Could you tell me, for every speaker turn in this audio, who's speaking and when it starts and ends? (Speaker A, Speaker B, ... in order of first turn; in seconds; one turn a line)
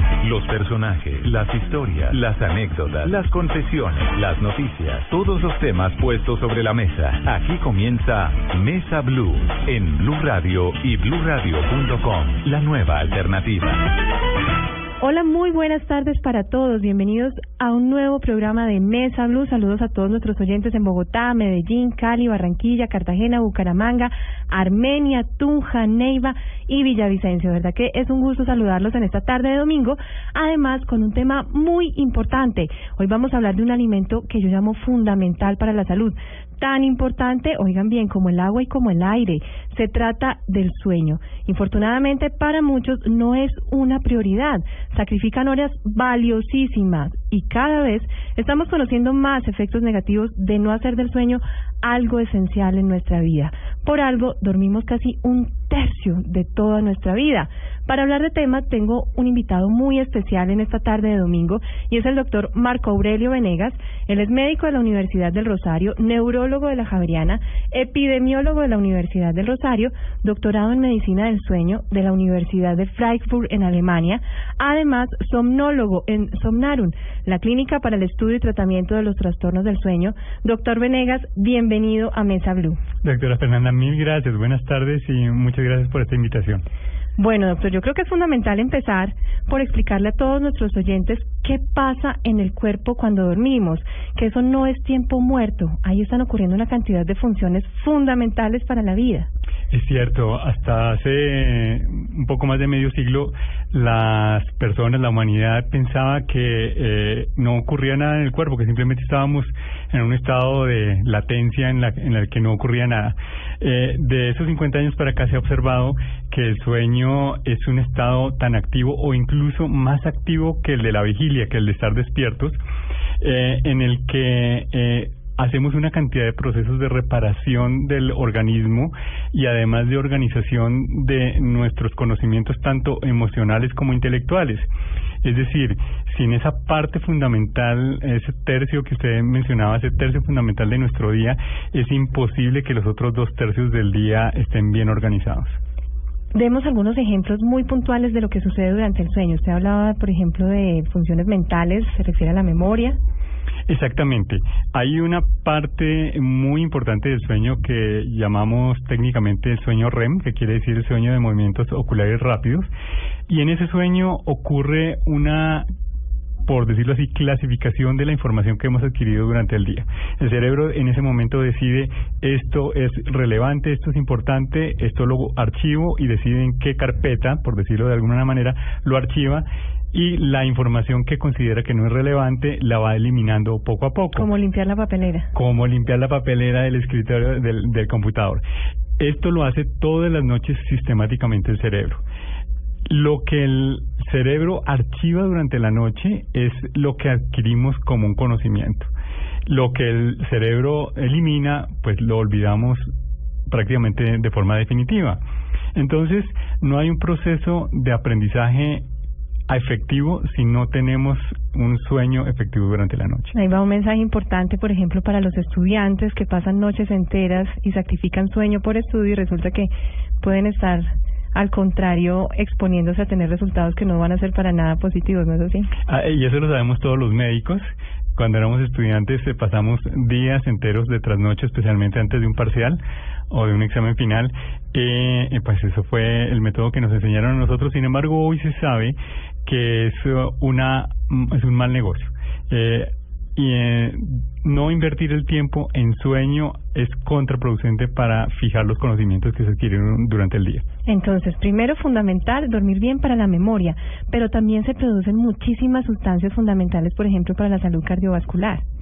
Speaker A: 0.2-13.8
Speaker B: 15.0-82.8
Speaker C: 83.0-86.6
Speaker B: 87.2-99.3
Speaker C: 99.7-122.6
Speaker C: 123.2-134.7
Speaker C: 135.2-145.6
Speaker B: 146.3-153.0
Speaker C: 153.7-162.7
Speaker C: 163.3-165.7
Speaker C: 166.4-184.3
Speaker B: 184.1-185.3
Speaker C: 185.3-188.4
Speaker C: 189.0-192.0
Speaker C: 192.9-198.9
Speaker C: 199.4-202.9
Speaker C: 203.5-205.2
Speaker C: 205.7-208.9
Speaker C: 209.5-213.3
Speaker B: 213.3-225.7
Speaker C: 225.9-250.7
Speaker B: 250.8-258.6